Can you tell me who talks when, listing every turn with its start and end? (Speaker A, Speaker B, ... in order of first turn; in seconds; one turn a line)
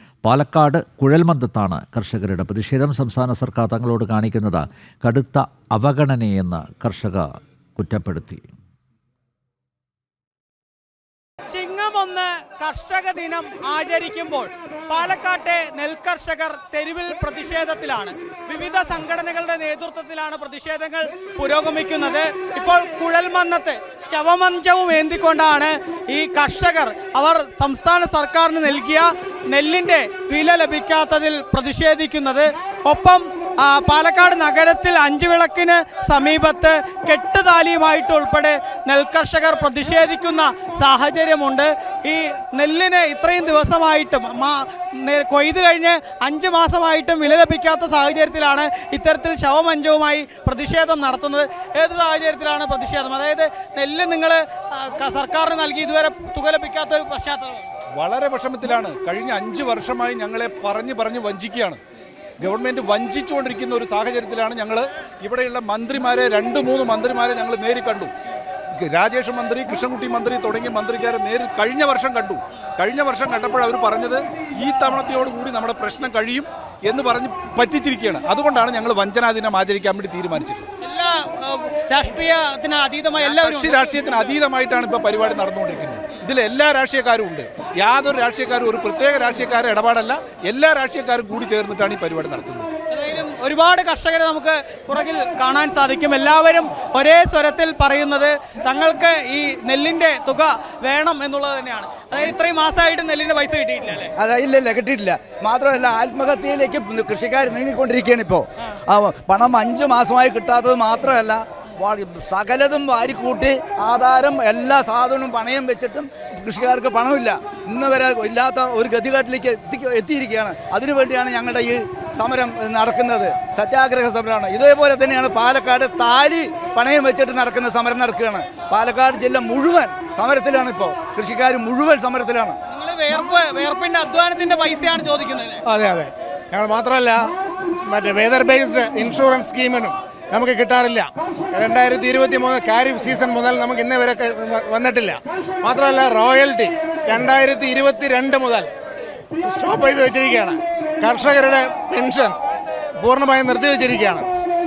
Speaker A: 0.2-8.5
Speaker B: 11.5-57.7
Speaker C: 58.0-61.8
Speaker C: 62.4-68.1
Speaker C: 68.8-80.7
Speaker B: 80.8-84.3
Speaker C: 83.2-92.7
Speaker B: 92.9-104.1
Speaker D: 104.2-132.6
Speaker B: 132.7-135.6
Speaker E: 135.7-137.3
Speaker E: 137.9-148.7
Speaker E: 149.4-152.4
Speaker E: 153.0-154.3